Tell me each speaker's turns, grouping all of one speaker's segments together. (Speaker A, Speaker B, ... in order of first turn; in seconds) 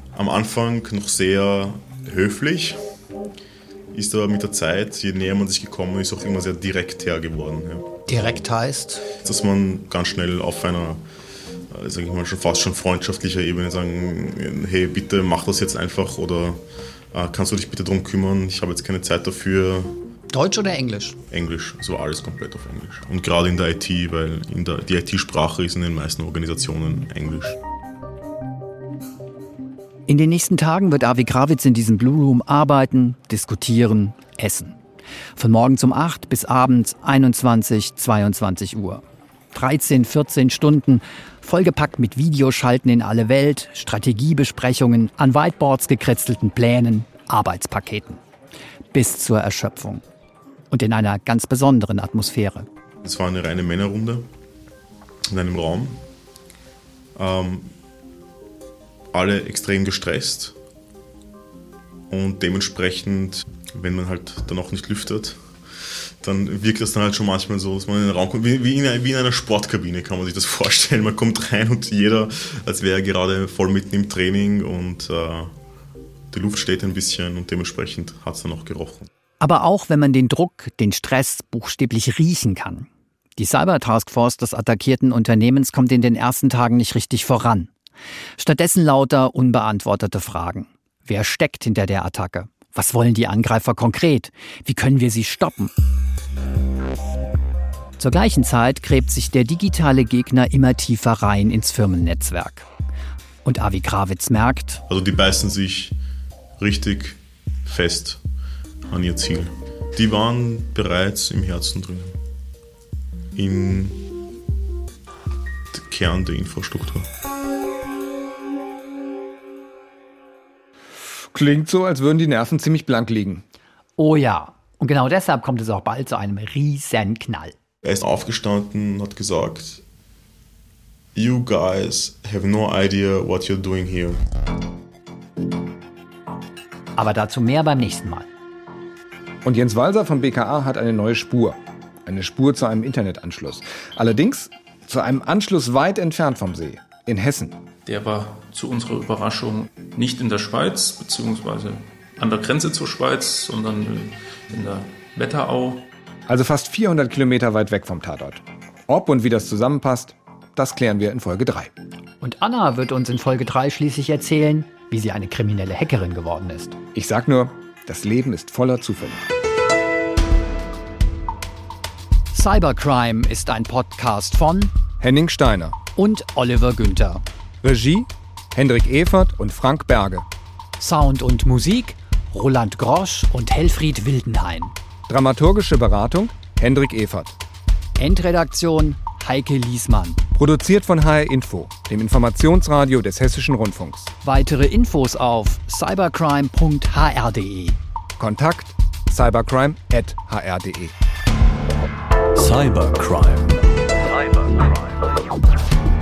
Speaker A: 0.1-2.8, 3.9-7.9, 9.2-11.0, 11.7-16.6, 17.1-19.9, 21.3-27.6, 53.0-54.3, 55.3-56.0, 57.1-57.7, 59.1-60.5, 62.1-65.4, 66.2-75.5, 76.3-79.1, 104.9-105.9, 106.6-108.2, 108.9-112.2, 113.3-114.0, 115.7-117.0, 127.8-129.8, 131.1-134.2
Speaker B: 8.1-9.0, 20.3-21.2, 30.1-34.8, 35.4-48.2, 48.9-50.0, 50.7-52.7, 79.4-87.7, 88.4-95.7, 98.0-102.7, 103.4-104.8, 124.0-127.5, 136.9-138.3, 162.2-166.8, 172.3-174.7, 175.9-177.2, 180.8-184.7, 188.0-190.2, 194.2-197.8
Speaker C: 121.2-123.4, 139.4-147.6, 156.3-161.7, 166.9-169.3, 175.0-175.8, 177.6-180.3, 185.1-187.4, 190.3-194.1, 198.2-200.9
Speaker D: 147.8-155.8
Speaker E: 202.3-205.2